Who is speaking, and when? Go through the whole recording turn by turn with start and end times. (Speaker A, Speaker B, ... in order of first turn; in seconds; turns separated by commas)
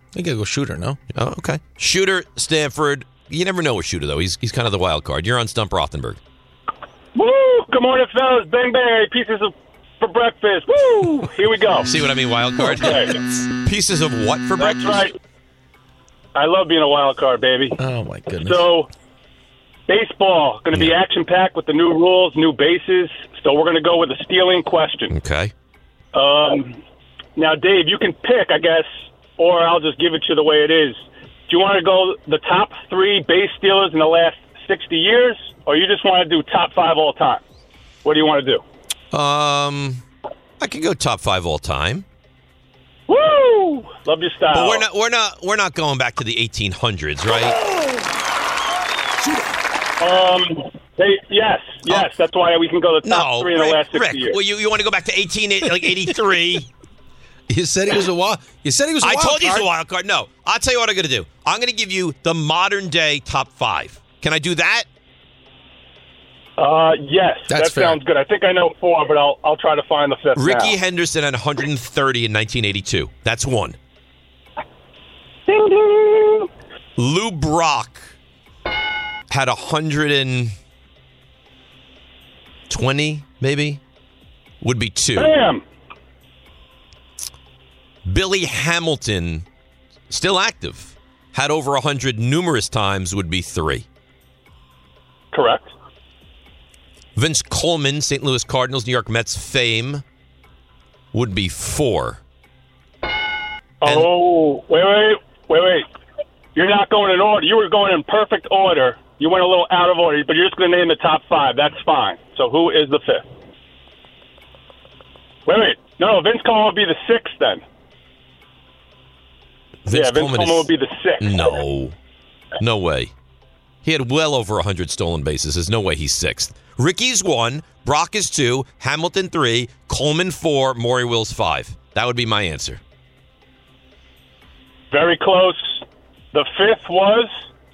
Speaker A: 0.1-1.0, Speaker B: 1.1-6.2, Speaker C: 7.1-11.9, Speaker B: 11.8-15.1, Speaker C: 12.8-13.2, Speaker C: 14.6-15.1, Speaker C: 16.3-17.8, Speaker A: 17.8-18.7, Speaker C: 18.4-18.9, Speaker C: 19.9-25.1, Speaker B: 25.1-25.5, Speaker C: 26.1-26.8, Speaker C: 27.4-37.4, Speaker C: 38.0-38.6, Speaker B: 39.1-40.0, Speaker B: 40.6-42.0, Speaker C: 43.1-44.9, Speaker B: 44.5-47.6, Speaker C: 50.0-54.4, Speaker B: 53.0-56.7, Speaker A: 57.5-59.7, Speaker B: 59.0-64.8, Speaker C: 66.6-70.8, Speaker A: 67.5-68.0, Speaker B: 70.3-73.8, Speaker C: 75.5-76.5, Speaker B: 77.0-78.1, Speaker B: 79.3-80.5, Speaker B: 82.7-83.8, Speaker B: 84.6-85.3, Speaker C: 85.2-85.6, Speaker B: 88.0-89.4, Speaker B: 90.1-93.8, Speaker C: 95.3-95.7, Speaker B: 97.2-100.0, Speaker B: 101.1-102.2, Speaker C: 103.8-105.8, Speaker C: 106.5-113.2, Speaker C: 115.5-117.6, Speaker B: 119.8-122.0, Speaker C: 119.9-121.6, Speaker B: 122.6-123.1, Speaker B: 123.8-132.8, Speaker C: 134.9-137.3